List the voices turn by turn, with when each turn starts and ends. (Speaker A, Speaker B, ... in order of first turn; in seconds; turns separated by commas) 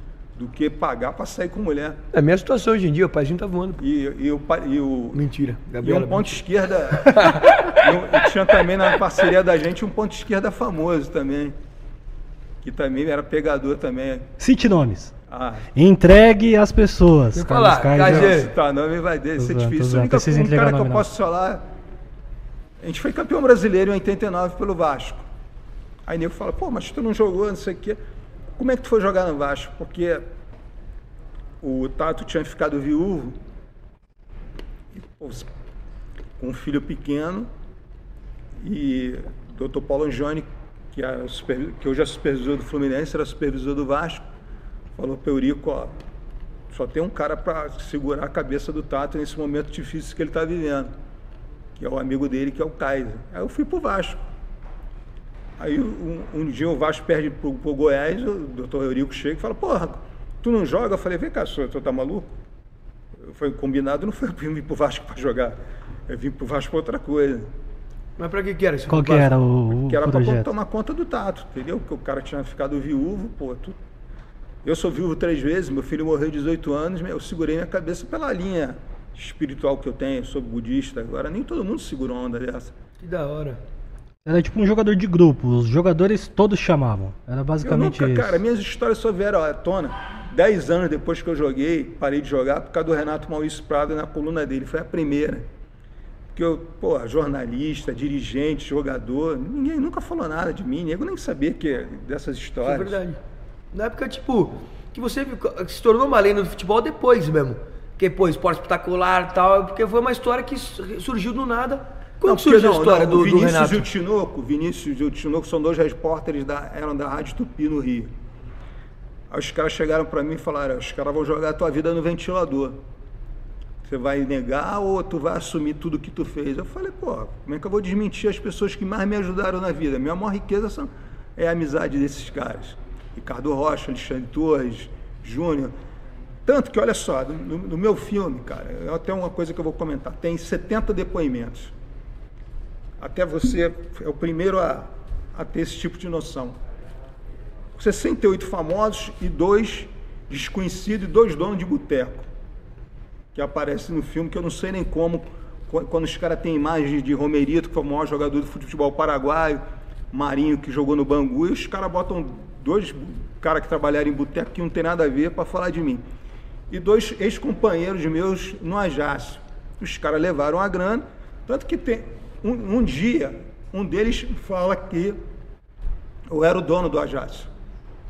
Speaker A: 0.4-2.0, Speaker B: 2.1-3.8, Speaker A: 3.8-5.2, Speaker B: 5.1-6.4, Speaker A: 5.8-11.6, Speaker B: 7.0-9.0, Speaker A: 12.6-14.3, Speaker C: 14.4-15.1, Speaker A: 15.3-15.7, Speaker C: 15.7-18.4, Speaker B: 17.3-18.5, Speaker A: 18.0-21.6, Speaker C: 19.4-21.1, Speaker A: 22.8-25.3, Speaker A: 26.1-28.0, Speaker A: 28.6-30.2, Speaker A: 31.6-33.4, Speaker A: 34.9-35.5, Speaker A: 36.4-37.5, Speaker A: 38.6-44.3, Speaker A: 45.0-46.0, Speaker A: 46.7-50.9, Speaker A: 51.8-54.2, Speaker A: 55.6-62.3, Speaker A: 63.2-67.5, Speaker B: 68.2-69.3, Speaker C: 68.9-70.5, Speaker A: 69.8-73.8, Speaker A: 74.6-82.7, Speaker B: 83.0-83.6, Speaker C: 84.2-88.4, Speaker A: 87.6-95.5, Speaker A: 96.3-103.0, Speaker B: 102.6-103.2, Speaker B: 103.7-113.9, Speaker A: 112.2-118.1, Speaker A: 119.3-122.8, Speaker A: 123.8-135.7, Speaker A: 136.4-141.7, Speaker A: 143.0-146.6, Speaker A: 147.8-152.3, Speaker A: 153.3-166.0, Speaker A: 166.7-175.2, Speaker A: 176.3-177.5